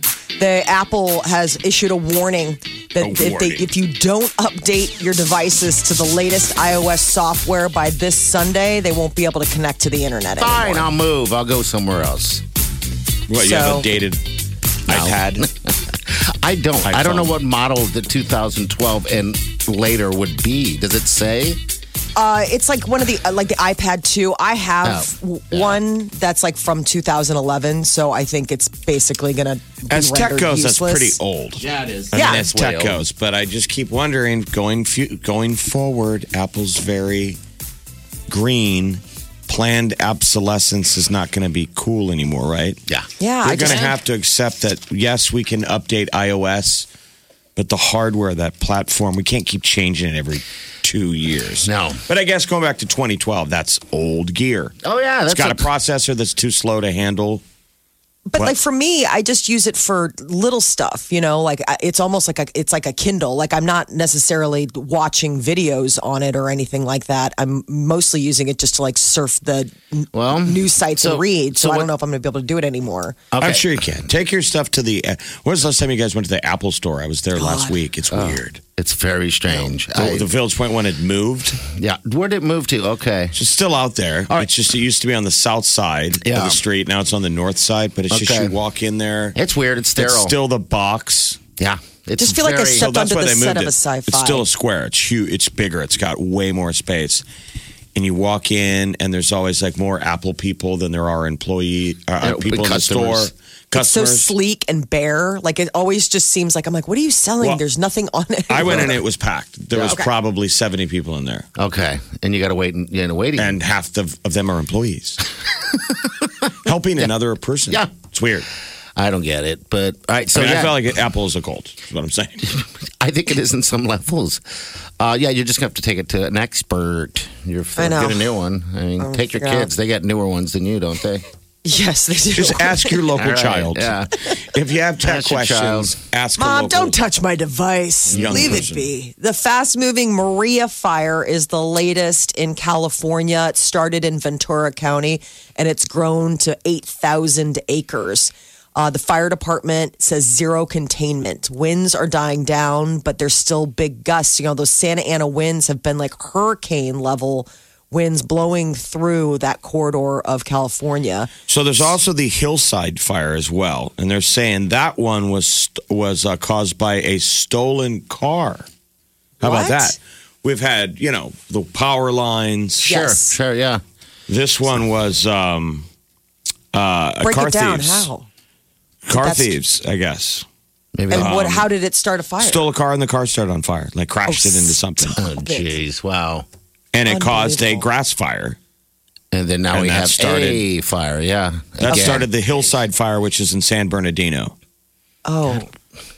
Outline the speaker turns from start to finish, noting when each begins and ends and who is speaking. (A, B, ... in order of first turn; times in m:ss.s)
0:00.4-0:10.9 A
0:03.0-0:03.7 B
0:10.4-0:12.4 C
0:13.3-0:14.3 B
0:13.4-0:13.9 A
0:14.8-0:15.5 B
0:14.9-0:21.6 C
0:16.8-0:17.3 B
0:22.2-0:31.2 A
0:24.8-0:25.8 C
0:29.9-0:37.4 B
0:31.6-0:33.0 C
0:32.1-0:32.4 A
0:38.3-0:42.8 B
0:43.2-0:43.9 A
0:43.4-0:46.9 B
0:43.6-0:43.9 C
0:47.6-0:54.8 B
0:51.6-0:52.0 C
0:54.8-0:55.7 C
0:55.3-0:57.4 B
0:58.3-1:13.2 A
1:10.2-1:11.9 C
1:13.3-1:13.8 C
1:13.4-1:18.6 B
1:17.4-1:17.8 A
1:18.1-1:20.3 C
1:19.5-1:21.6 B
1:21.6-1:23.4 C
1:23.3-1:29.4 B
1:26.2-1:26.6 C
1:28.1-1:28.6 C
1:29.4-1:30.4 C
1:30.0-1:31.4 B
1:31.6-1:32.9 C
1:32.2-1:34.5 A
1:32.7-1:37.2 B
1:38.0-1:44.3 B
1:42.2-1:43.3 C
1:43.7-1:49.0 A
1:48.5-1:51.5 B
1:48.6-1:48.9 C
1:49.8-1:50.1 A
1:51.6-1:53.6 C
1:53.4-1:55.2 B
1:55.7-1:56.3 C
1:56.6-1:58.5 B
1:57.7-1:57.9 C
1:59.0-2:00.8 C
2:00.3-2:02.5 B
2:02.4-2:04.4 C
2:05.0-2:11.2 C
2:07.8-2:08.3 A
2:09.0-2:09.7 A
2:11.6-2:13.1 A
2:12.4-2:17.0 B
2:13.2-2:14.1 C
2:15.0-2:15.9 C
2:16.4-2:41.3 A
2:18.1-2:18.6 C
2:18.1-2:18.9 B
2:41.5-2:48.7 B
2:49.4-2:52.9 B
2:49.4-2:50.0 A
2:52.8-2:53.8 C
2:52.8-2:53.4 A
2:54.3-2:55.9 B
2:56.7-2:58.1 B
2:57.2-2:58.3 A
2:59.1-3:00.4 B
2:59.2-2:59.5 A
3:01.0-3:01.3 C
3:01.1-3:02.7 A
3:01.1-3:01.7 B
3:02.4-3:05.2 B
3:04.3-3:05.7 A
3:05.1-3:06.5 C
3:06.9-3:08.6 B
3:07.0-3:07.9 A
3:09.3-3:12.3 C
3:09.7-3:10.6 B
3:11.8-3:14.5 B
3:11.9-3:12.2 A
3:15.2-3:15.7 A